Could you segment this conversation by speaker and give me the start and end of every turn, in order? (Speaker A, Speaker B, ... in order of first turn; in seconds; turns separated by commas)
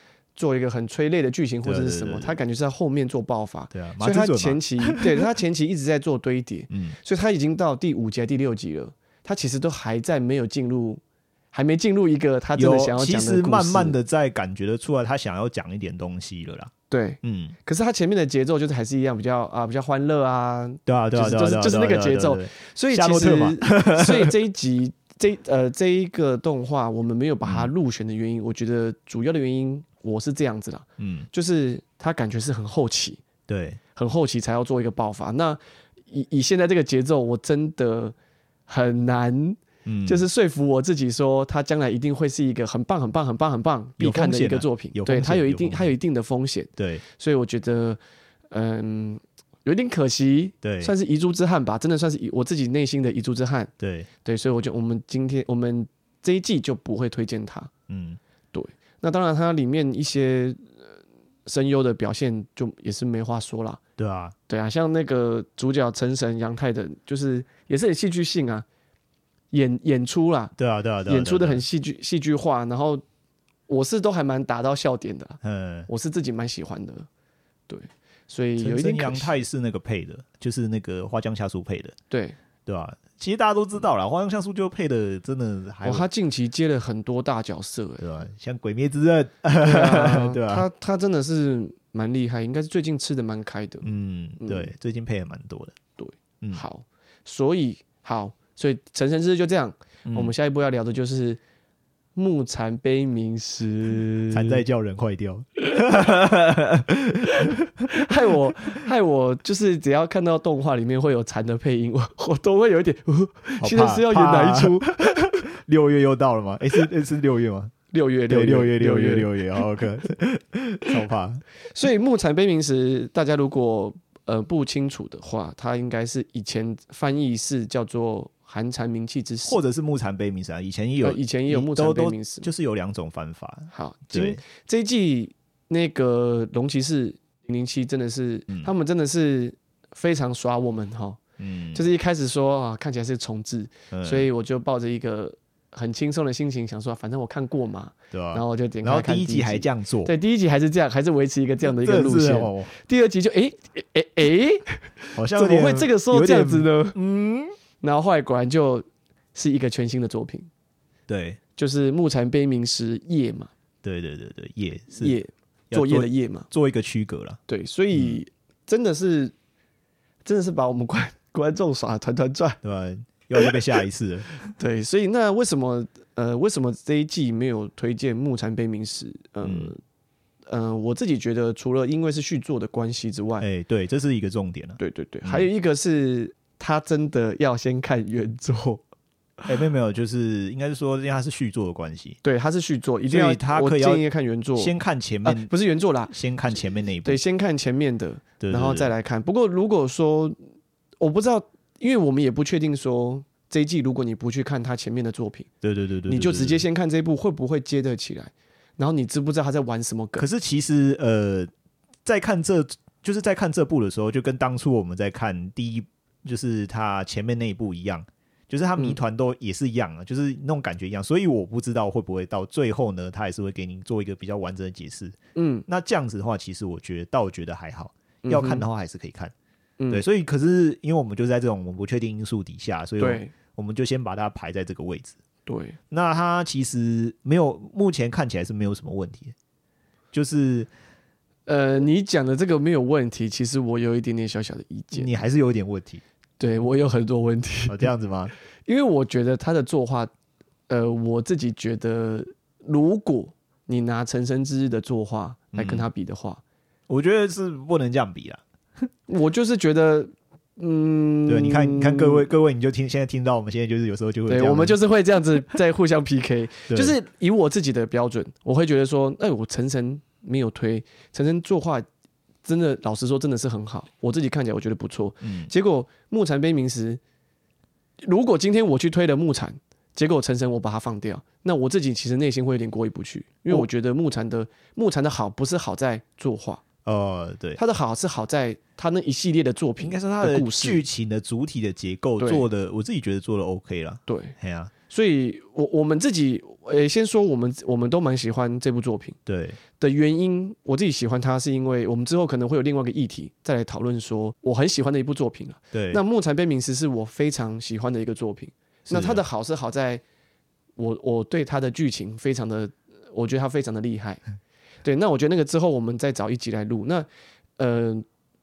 Speaker A: 0.3-13.9, Speaker B: 1.6-2.4, Speaker B: 3.7-5.3, Speaker B: 6.7-7.0, Speaker B: 12.6-16.7, Speaker A: 16.9-33.2, Speaker B: 17.2-17.5, Speaker B: 20.9-24.3, Speaker B: 27.4-27.7, Speaker B: 31.0-31.3, Speaker B: 33.5-33.8, Speaker A: 33.9-38.1, Speaker A: 38.7-53.7, Speaker B: 39.9-40.2, Speaker B: 44.0-45.9, Speaker B: 46.8-47.0, Speaker B: 50.6-50.9, Speaker B: 53.8-54.1, Speaker A: 54.2-57.7, Speaker B: 57.9-58.2, Speaker A: 58.5-60.9, Speaker A: 61.5-63.8, Speaker B: 64.0-64.3, Speaker A: 64.5-68.7, Speaker A: 69.5-70.5, Speaker B: 70.5-71.6, Speaker A: 71.0-73.0, Speaker A: 73.7-77.1, Speaker B: 75.4-75.9, Speaker A: 77.7-79.4, Speaker B: 78.6-81.9, Speaker A: 82.1-82.4, Speaker B: 82.7-86.0, Speaker A: 85.8-88.0, Speaker B: 88.0-90.7, Speaker A: 89.6-93.9, Speaker B: 93.8-95.7, Speaker A: 94.4-94.7, Speaker A: 96.0-101.4, Speaker B: 100.0-100.3, Speaker A: 102.1-104.6, Speaker B: 104.3-107.8, Speaker A: 105.7-106.1, Speaker A: 107.3-115.3, Speaker B: 113.6-117.7, Speaker A: 117.9-119.6, Speaker B: 118.3-121.4, Speaker A: 121.7-129.6, Speaker B: 129.4-134.4, Speaker A: 131.0-132.5, Speaker A: 133.7-141.2, Speaker B: 141.4-141.8, Speaker A: 141.7-157.0, Speaker B: 143.9-144.3, Speaker B: 148.1-150.1, Speaker B: 151.7-152.7, Speaker B: 155.1-157.5, Speaker A: 157.8-160.5, Speaker B: 161.1-161.4, Speaker A: 161.6-163.5, Speaker B: 163.8-165.2, Speaker A: 164.9-166.5, Speaker B: 165.7-167.4, Speaker A: 167.5-169.3, Speaker B: 167.9-168.2, Speaker A: 170.2-172.6, Speaker B: 172.6-174.4, Speaker A: 174.6-179.8, Speaker B: 179.4-179.7, Speaker A: 180.4-183.4, Speaker B: 183.4-185.5, Speaker A: 184.8-188.8, Speaker B: 189.4-192.2, Speaker A: 192.2-196.1, Speaker B: 193.1-194.0, Speaker B: 194.6-195.5, Speaker B: 196.1-197.2, Speaker A: 197.0-200.4, Speaker B: 198.4-198.9, Speaker A: 201.0-205.5, Speaker B: 205.6-206.6, Speaker A: 206.1-210.3, Speaker B: 210.2-211.5, Speaker B: 212.0-225.2, Speaker A: 225.3-225.7, Speaker B: 225.7-229.3, Speaker A: 228.2-228.6, Speaker B: 229.9-235.2, Speaker A: 233.0-233.3, Speaker A: 235.4-235.8, Speaker B: 235.9-239.3, Speaker B: 240.1-240.7, Speaker A: 241.4-245.2, Speaker B: 244.9-246.0, Speaker A: 246.4-247.9, Speaker B: 247.7-248.3, Speaker A: 248.7-250.1, Speaker A: 250.7-256.4, Speaker B: 255.5-255.8, Speaker B: 256.9-258.4, Speaker A: 259.1-262.3, Speaker B: 261.3-264.8, Speaker A: 264.3-271.9, Speaker B: 266.7-267.0, Speaker A: 272.4-277.0, Speaker B: 275.2-275.5, Speaker A: 278.0-286.6, Speaker B: 286.8-287.6, Speaker A: 287.6-290.8, Speaker B: 289.8-294.7, Speaker A: 292.2-292.4, Speaker A: 294.1-294.3, Speaker A: 294.9-299.2, Speaker B: 299.2-299.6, Speaker A: 299.8-310.0, Speaker B: 305.7-306.0, Speaker B: 308.9-309.2, Speaker A: 310.8-314.2, Speaker A: 314.8-318.0